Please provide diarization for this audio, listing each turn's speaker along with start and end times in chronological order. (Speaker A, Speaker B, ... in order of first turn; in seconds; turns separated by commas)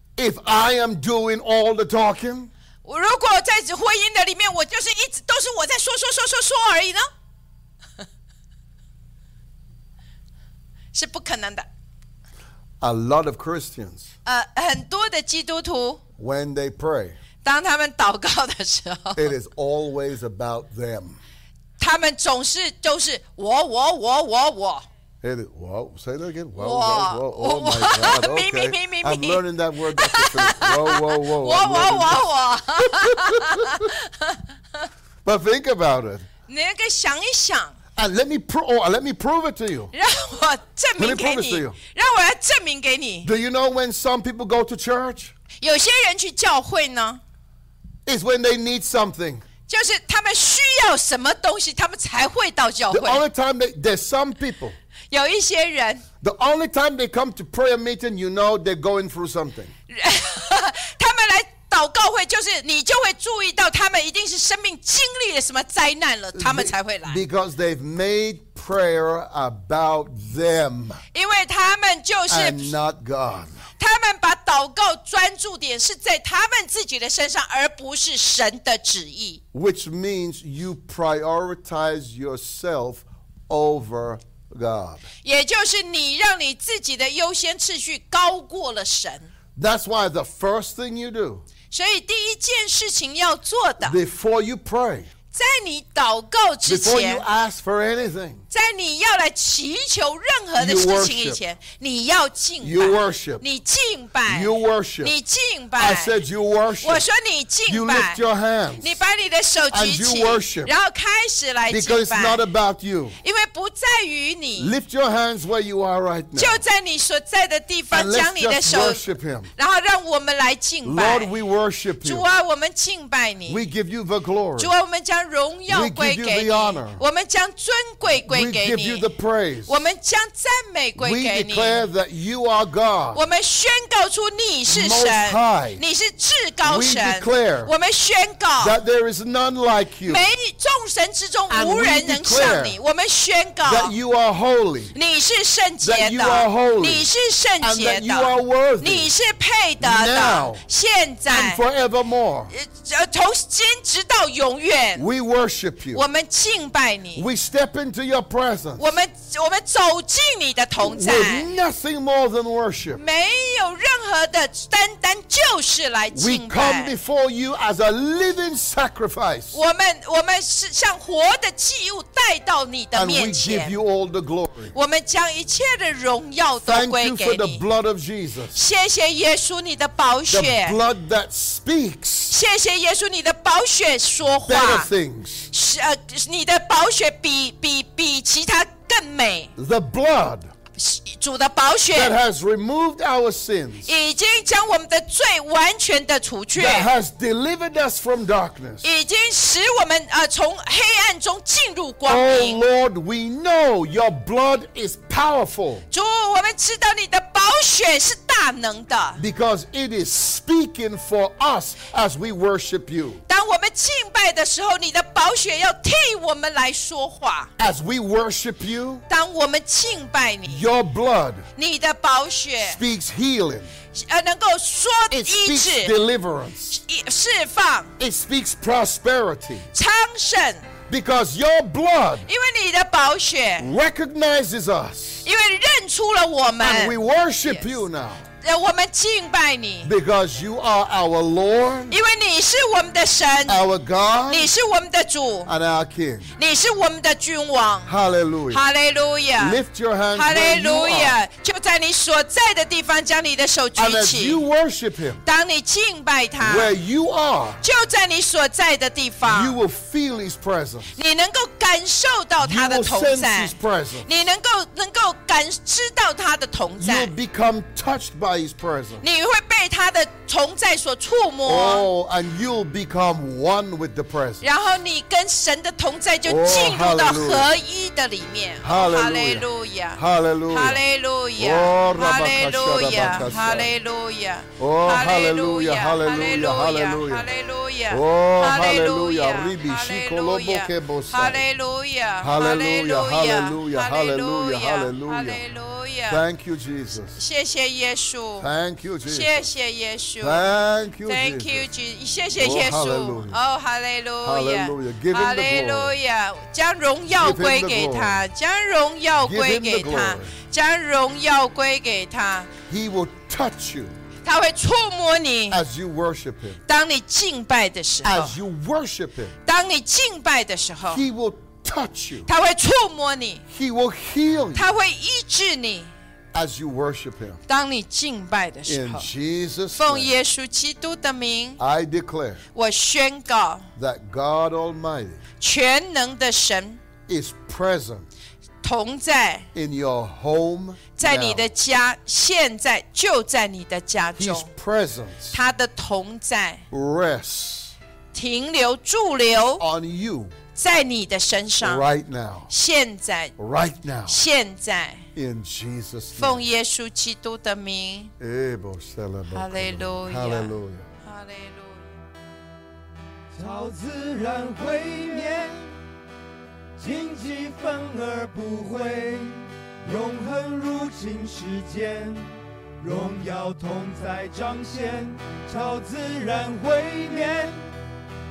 Speaker A: 0.1-2.5, Speaker B: 2.8-7.1, Speaker B: 10.9-11.7, Speaker A: 12.8-14.1, Speaker B: 14.2-16.0, Speaker A: 16.2-17.2, Speaker B: 17.4-19.3, Speaker A: 19.1-21.2, Speaker B: 21.8-24.8, Speaker A: 25.2-33.9, Speaker B: 26.6-29.4, Speaker B: 29.9-34.4, Speaker A: 35.2-36.3, Speaker B: 36.5-37.8, Speaker A: 38.0-39.9, Speaker B: 39.9-43.3, Speaker A: 41.0-41.8, Speaker A: 43.2-45.3, Speaker B: 45.6-47.2, Speaker A: 48.0-49.4, Speaker B: 49.7-53.2, Speaker A: 52.9-54.8, Speaker B: 55.1-56.0, Speaker A: 56.2-59.7, Speaker B: 59.9-67.2, Speaker A: 66.3-71.0, Speaker B: 71.1-72.7, Speaker A: 72.3-73.6, Speaker B: 73.8-79.4, Speaker A: 79.5-85.0, Speaker B: 85.2-89.3, Speaker A: 89.5-91.4, Speaker B: 91.7-94.0, Speaker A: 93.8-95.1, Speaker B: 95.3-97.2, Speaker A: 96.7-98.4, Speaker B: 98.5-106.2, Speaker A: 100.5-101.4, Speaker A: 102.6-103.4, Speaker A: 104.3-105.1, Speaker A: 105.8-107.0, Speaker B: 106.8-108.2, Speaker A: 107.7-109.0, Speaker B: 108.8-112.5, Speaker A: 109.7-110.7, Speaker A: 111.7-113.2, Speaker B: 113.2-114.8, Speaker A: 114.6-116.6, Speaker B: 116.3-119.0, Speaker A: 117.9-119.5, Speaker B: 119.5-121.3, Speaker A: 120.8-122.2, Speaker B: 122.0-123.6, Speaker A: 123.5-124.7, Speaker B: 124.6-129.1, Speaker A: 125.7-127.0, Speaker A: 128.1-129.8, Speaker B: 129.7-131.9, Speaker A: 130.9-133.2, Speaker B: 133.1-138.8, Speaker A: 134.7-135.8, Speaker A: 136.6-137.7, Speaker A: 138.6-140.3, Speaker B: 140.0-143.9, Speaker A: 141.5-142.8, Speaker A: 143.6-144.9, Speaker B: 144.9-151.6, Speaker A: 145.8-147.1, Speaker A: 147.6-149.1, Speaker A: 149.8-150.6, Speaker A: 151.3-152.5, Speaker B: 152.5-155.0, Speaker A: 154.9-156.0, Speaker B: 155.9-157.2, Speaker A: 157.1-159.0, Speaker B: 158.8-161.5, Speaker A: 160.8-163.0, Speaker B: 162.9-166.9, Speaker A: 166.1-169.6, Speaker B: 169.5-173.8, Speaker A: 172.9-174.7, Speaker B: 174.7-177.6, Speaker A: 176.6-178.6, Speaker B: 178.5-180.8, Speaker A: 180.3-182.3, Speaker B: 182.3-184.9, Speaker A: 184.4-185.5, Speaker B: 185.5-189.5, Speaker A: 189.6-190.5, Speaker B: 190.8-192.2, Speaker A: 191.9-193.9, Speaker B: 193.8-196.9, Speaker A: 196.5-198.8, Speaker B: 198.8-202.6, Speaker A: 202.1-205.9, Speaker B: 205.9-209.2, Speaker A: 209.2-213.2, Speaker B: 213.3-217.5, Speaker A: 217.6-219.0, Speaker B: 219.1-220.6, Speaker A: 220.5-221.5, Speaker B: 221.6-222.8, Speaker A: 222.6-223.7, Speaker B: 223.9-225.9, Speaker A: 225.1-226.8, Speaker B: 226.7-227.9, Speaker A: 228.0-229.7, Speaker B: 229.7-230.7, Speaker A: 230.9-232.3, Speaker B: 232.2-233.7, Speaker A: 233.6-235.2, Speaker B: 235.2-237.8, Speaker A: 236.6-238.3, Speaker B: 238.4-239.9, Speaker A: 239.8-241.9, Speaker B: 241.9-243.6, Speaker A: 243.5-244.5, Speaker B: 244.3-245.5, Speaker A: 245.4-246.3, Speaker B: 246.4-247.9, Speaker A: 247.8-248.6, Speaker B: 248.5-249.6, Speaker A: 249.4-251.2, Speaker B: 250.1-254.4, Speaker A: 253.8-255.2, Speaker B: 255.2-256.7, Speaker A: 256.4-257.6, Speaker B: 257.6-259.6, Speaker A: 259.2-260.9, Speaker B: 260.9-267.1, Speaker A: 262.4-264.2, Speaker A: 266.8-269.0, Speaker B: 269.0-271.8, Speaker A: 271.4-274.4, Speaker B: 274.4-296.2, Speaker A: 276.2-277.5, Speaker A: 278.6-280.8, Speaker A: 281.4-283.7, Speaker A: 284.6-287.3, Speaker A: 287.9-291.4, Speaker A: 292.2-295.4, Speaker A: 296.1-297.2, Speaker B: 297.1-298.5, Speaker A: 298.4-299.5, Speaker B: 299.1-300.5, Speaker A: 300.2-301.7, Speaker B: 301.0-312.5, Speaker A: 302.4-303.4, Speaker A: 304.2-306.0, Speaker A: 307.1-308.2, Speaker A: 309.2-310.3, Speaker A: 312.7-313.9, Speaker B: 314.2-315.6, Speaker A: 315.5-316.6, Speaker B: 316.7-318.3, Speaker A: 318.0-319.4, Speaker B: 319.4-321.0, Speaker A: 320.9-322.3, Speaker B: 322.2-323.4, Speaker A: 323.5-324.7, Speaker B: 324.5-325.9, Speaker A: 326.3-327.4, Speaker B: 327.5-329.1, Speaker A: 328.6-330.1, Speaker B: 329.7-331.6, Speaker A: 331.6-332.4, Speaker B: 332.5-333.7, Speaker A: 333.8-335.2, Speaker B: 335.4-336.8, Speaker A: 337.1-338.1, Speaker B: 338.6-339.5, Speaker A: 339.5-341.5, Speaker B: 341.0-344.5, Speaker A: 344.2-345.4, Speaker B: 345.3-346.6, Speaker A: 346.7-347.7, Speaker B: 348.1-349.6, Speaker A: 349.6-350.3, Speaker B: 350.5-351.8, Speaker A: 351.6-352.5, Speaker B: 352.5-353.3, Speaker A: 353.4-354.2, Speaker B: 354.1-355.0, Speaker A: 355.1-356.4, Speaker B: 356.1-358.1, Speaker A: 358.2-360.9, Speaker B: 359.3-361.9, Speaker C: 363.3-365.7, Speaker C: 366.8-377.6